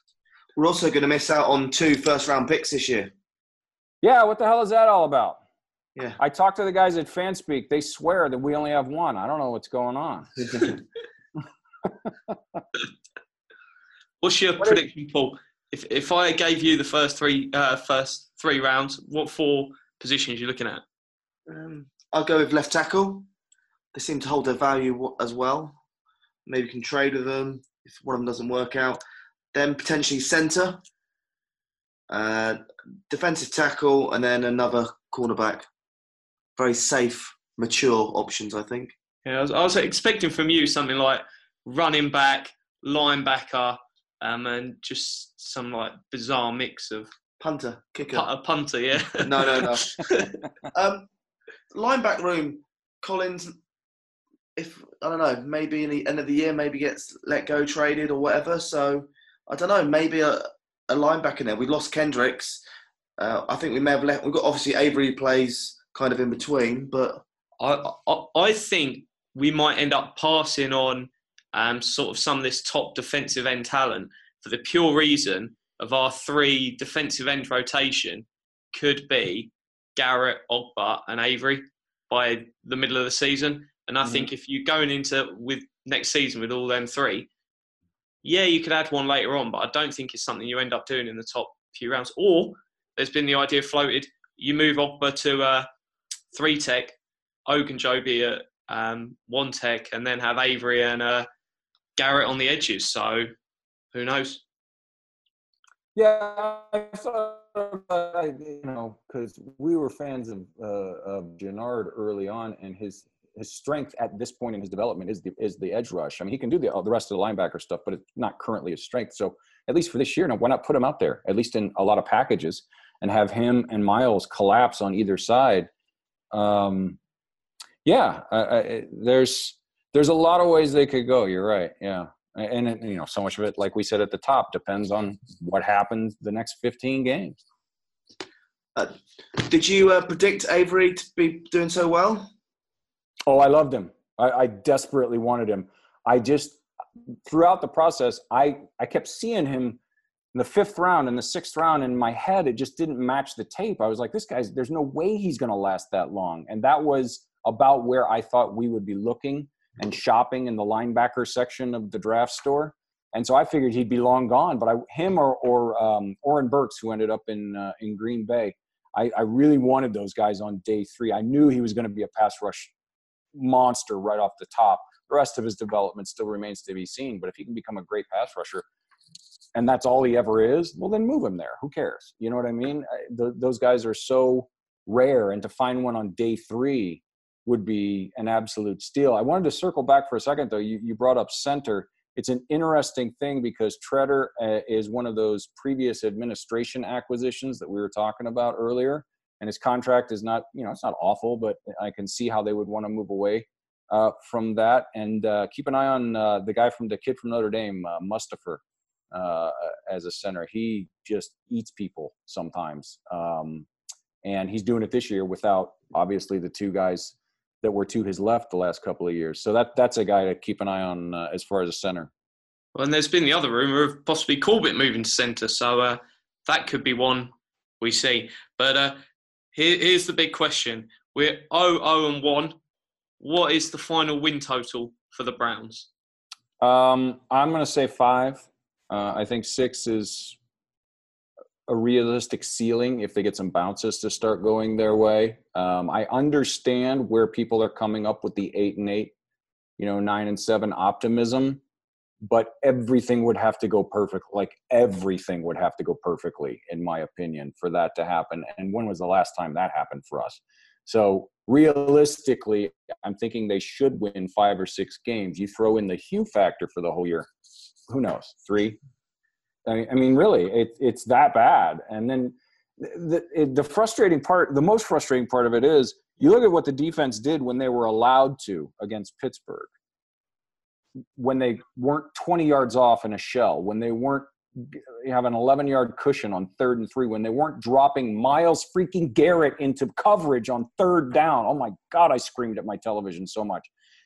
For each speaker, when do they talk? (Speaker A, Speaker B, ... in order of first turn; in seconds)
Speaker A: 0.6-3.1, 21.5-23.3, 23.9-25.8, 26.5-29.0, 29.5-30.8, 32.1-35.7, 36.6-38.9, 47.4-48.3, 49.2-50.0, 50.7-51.1, 51.7-53.6, 54.6-62.6, 63.2-67.2, 138.8-142.3
Speaker B: 4.0-5.4, 6.2-10.3, 11.8-12.6, 84.0-84.3, 106.0-125.7, 126.3-127.0, 127.8-137.4, 143.3-146.6, 147.3-149.8, 150.3-172.7, 173.3-178.7, 179.5-213.7, 214.2-222.1, 236.6-240.4, 241.7-249.1, 249.8-251.6, 252.2-267.3, 267.9-268.8, 269.7-279.7, 281.2-293.7
Speaker C: 14.2-20.8, 39.2-47.1, 48.1-50.4, 67.6-87.3, 88.2-95.7, 96.3-97.0, 97.5-101.3, 102.0-103.3, 103.9-104.4, 222.8-229.0, 229.5-232.6, 233.2-235.9